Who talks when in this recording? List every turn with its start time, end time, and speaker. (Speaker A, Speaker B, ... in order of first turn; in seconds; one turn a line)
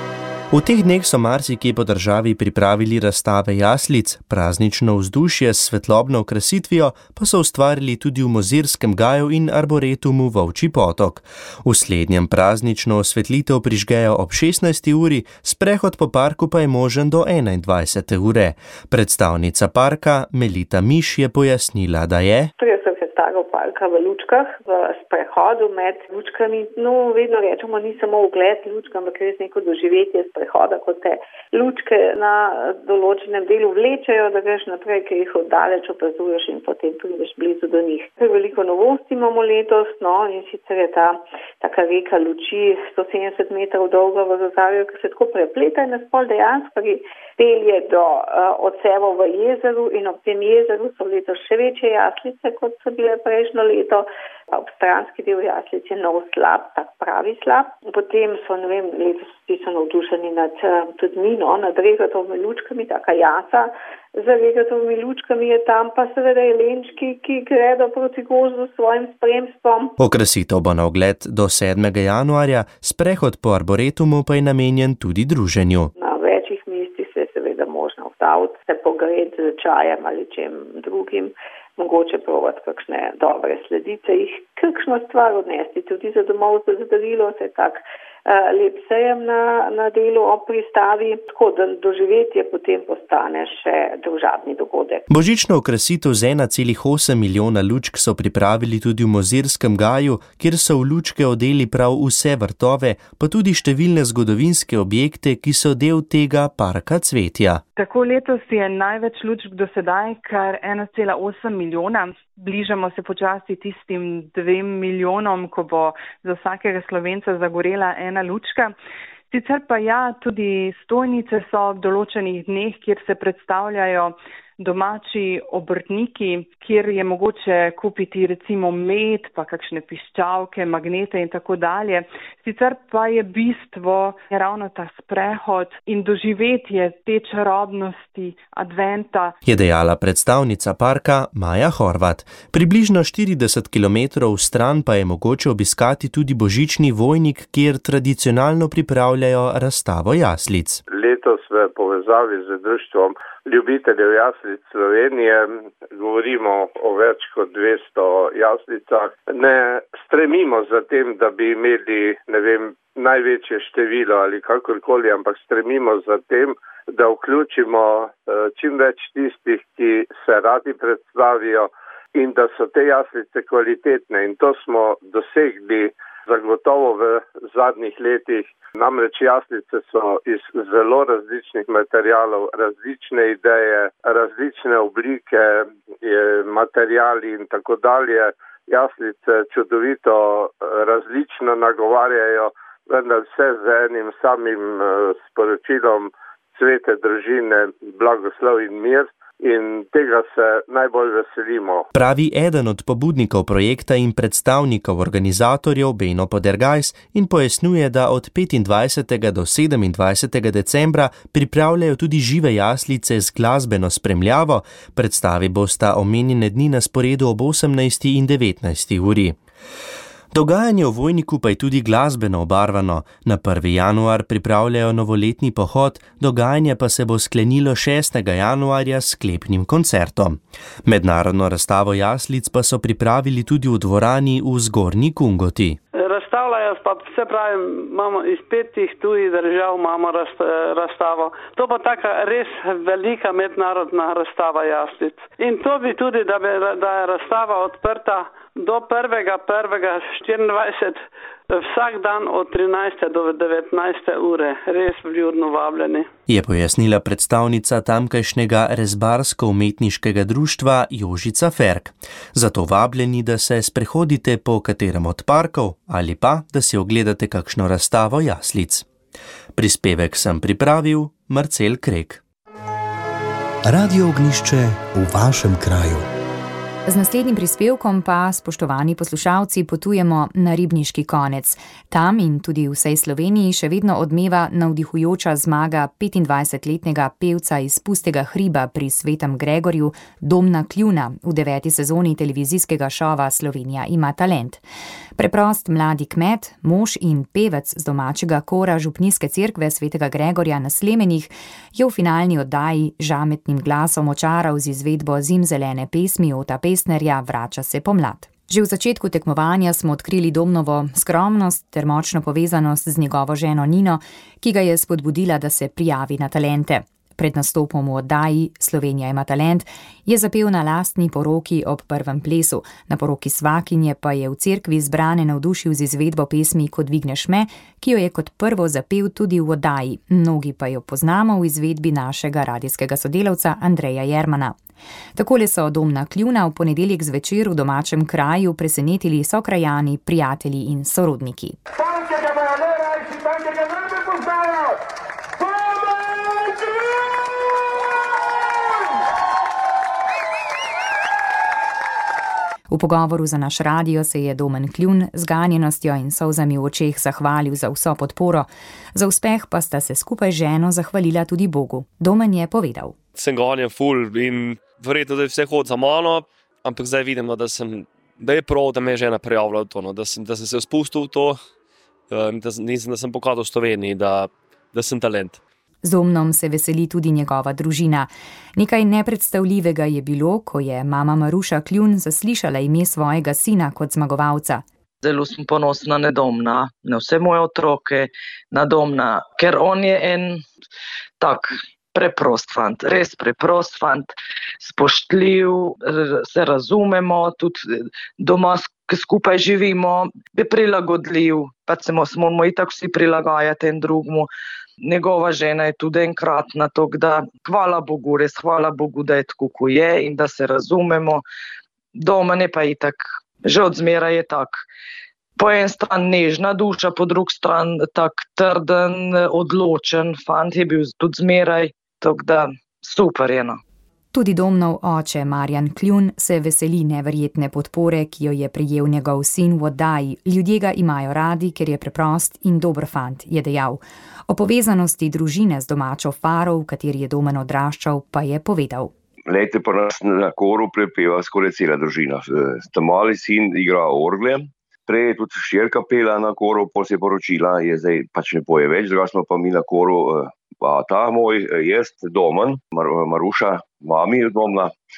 Speaker A: 0.5-22.5
Speaker B: 22.6-70.0
Speaker A: 70.0-75.9
Speaker B: 76.0-95.0
Speaker A: 95.1-107.6
Speaker C: 107.8-118.8
Speaker C: 119.3-139.4
Speaker A: 139.4-150.8
Speaker D: 150.9-201.9
Speaker A: 201.9-219.4
Speaker A: 220.3-235.8
Speaker E: 236.1-250.9
Speaker E: 251.6-256.0
Speaker A: 256.3-268.9
Speaker A: 269.6-272.2
Speaker F: 273.7-276.1
Speaker G: 276.9-294.6
Speaker G: 295.2-334.6
Speaker G: 335.1-341.6
Speaker G: 352.7-362.9
Speaker H: 363.1-371.4
Speaker H: 372.1-375.4
Speaker G: 375.8-384.6
Speaker I: 385.0-390.4
Speaker I: 391.2-404.3
Speaker I: 404.8-411.2
Speaker I: 411.9-414.6
Speaker I: 415.4-423.6
Speaker G: 424.1-438.9
Speaker J: 439.3-454.7